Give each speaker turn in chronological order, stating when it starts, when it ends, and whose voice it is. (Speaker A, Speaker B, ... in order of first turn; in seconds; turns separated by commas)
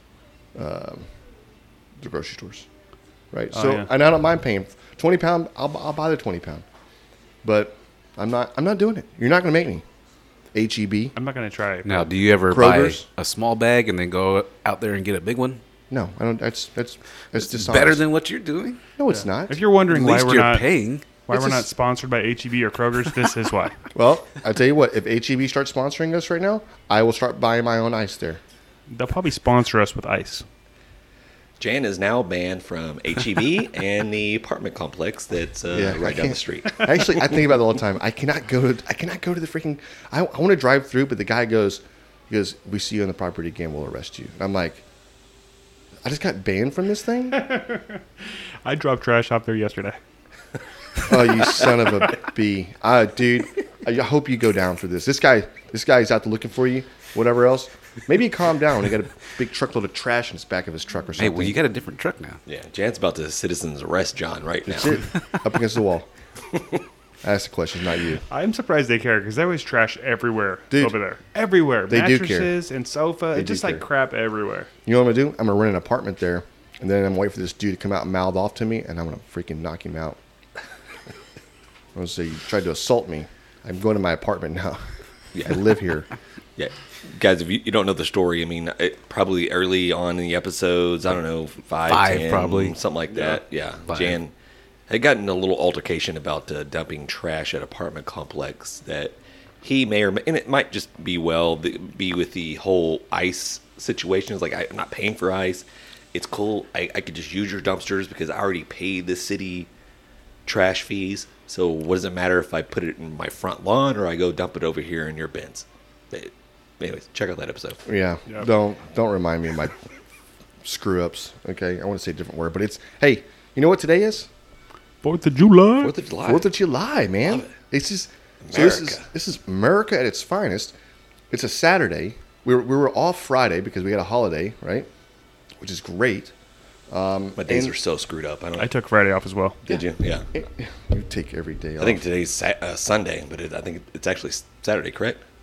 Speaker A: 0.5-1.1, Speaker A: 2.0-2.7, Speaker A: 3.3-6.6, Speaker B: 3.5-3.9, Speaker A: 7.4-9.8, Speaker A: 10.5-11.2, Speaker B: 11.2-12.1, Speaker C: 11.8-15.6, Speaker A: 12.5-13.0, Speaker A: 15.9-18.0, Speaker C: 17.3-18.8, Speaker A: 19.0-19.6, Speaker B: 19.1-20.7, Speaker C: 19.9-21.1, Speaker B: 21.3-23.8, Speaker A: 21.3-21.7, Speaker A: 23.9-28.4, Speaker B: 28.9-30.4, Speaker D: 31.6-37.0, Speaker A: 35.7-44.8, Speaker A: 46.0-47.5, Speaker B: 47.3-50.0, Speaker A: 51.0-61.6, Speaker C: 61.2-62.4, Speaker D: 62.5-65.0, Speaker A: 64.7-66.1, Speaker A: 67.2-68.2, Speaker B: 68.3-74.7, Speaker A: 70.7-71.0, Speaker A: 71.9-72.5, Speaker A: 73.3-73.8, Speaker A: 74.8-80.2, Speaker A: 81.9-84.9, Speaker D: 85.3-85.6, Speaker A: 85.4-86.1, Speaker D: 86.6-94.3, Speaker C: 91.9-94.2, Speaker D: 94.9-109.7, Speaker D: 110.5-117.8, Speaker A: 117.8-119.8, Speaker A: 120.6-124.3, Speaker B: 125.0-125.9, Speaker D: 125.8-126.5, Speaker A: 126.2-130.7, Speaker D: 127.3-127.6, Speaker D: 128.4-129.1, Speaker A: 131.3-134.9, Speaker A: 135.6-136.3, Speaker A: 136.9-137.7, Speaker D: 137.3-138.7, Speaker B: 138.6-139.6, Speaker D: 139.7-140.2, Speaker A: 139.7-142.0, Speaker D: 141.8-145.2